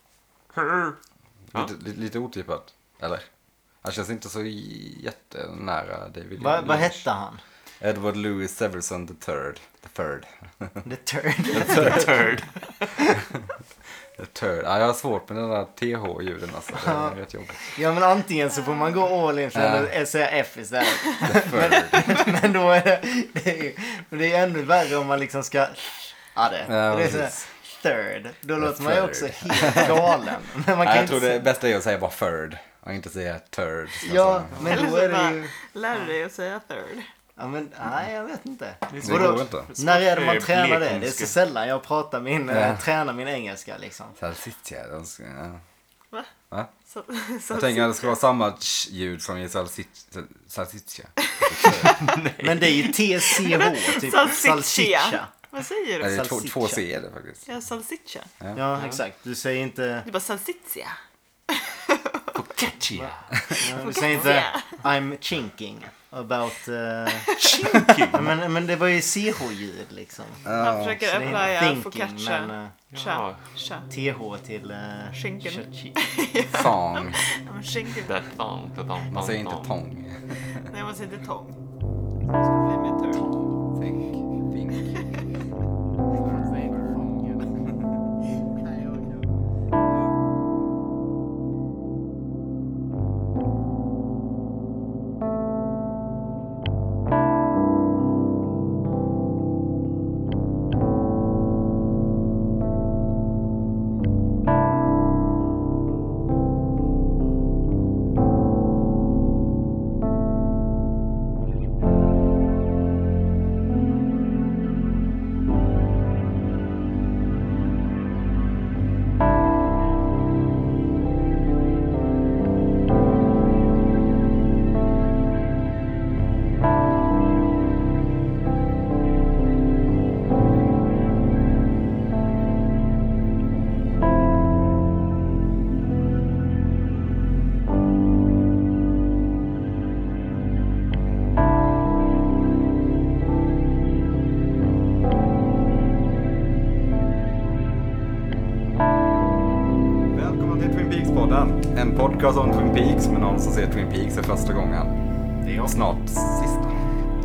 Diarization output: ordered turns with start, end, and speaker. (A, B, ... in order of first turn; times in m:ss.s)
0:00.5-0:01.0 A
0:01.5-0:03.2 B
0:03.8-0:07.0 B
0:06.4-0:07.4 C
0:07.8-0:10.8 B
0:10.8-0:12.3 C
0:11.5-0:13.0 A
0:11.6-0:12.0 B
0:14.2-0:17.7 B
0:16.7-0:31.5 C
0:19.5-0:19.9 B
0:21.2-0:22.2 B
0:26.6-0:27.4 B
0:28.6-0:30.2 B
0:30.8-0:34.6 B
0:34.0-0:36.0 C
0:34.6-0:37.1 D
0:37.4-0:44.2 C
0:38.9-0:41.3 A
0:39.0-0:39.7 B
0:42.5-0:42.8 B
0:44.2-0:45.6 B
0:46.8-0:48.2 D
0:47.5-0:52.0 B
0:51.3-0:52.2 D
0:52.0-0:52.9 A
0:52.4-0:55.3 C
0:52.8-0:56.2 D
0:56.0-0:57.5 B
0:56.0-0:56.8 C
0:57.4-0:58.3 D
0:58.5-1:00.1 C
0:58.7-0:59.0 A
1:00.0-1:01.0 D
1:01.5-1:02.4 D
1:02.3-1:04.3 A
1:02.9-1:07.3 C
1:03.4-1:03.6 B
1:03.7-1:04.8 D
1:07.2-1:08.0 D
1:07.4-1:08.3 A
1:08.1-1:10.5 C
1:10.4-1:11.3 B
1:10.6-1:13.9 D
1:11.0-1:12.8 C
1:12.9-1:13.4 A
1:13.9-1:16.0 C
1:15.1-1:18.1 D
1:16.5-1:17.2 B
1:18.0-1:19.7 A
1:19.1-1:20.6 B
1:20.5-1:21.6 D
1:22.2-1:23.2 D
1:23.7-1:25.0 B
1:26.3-1:27.5 C
2:30.1-2:34.9 B
2:35.4-2:35.7 C
2:35.6-2:36.7 B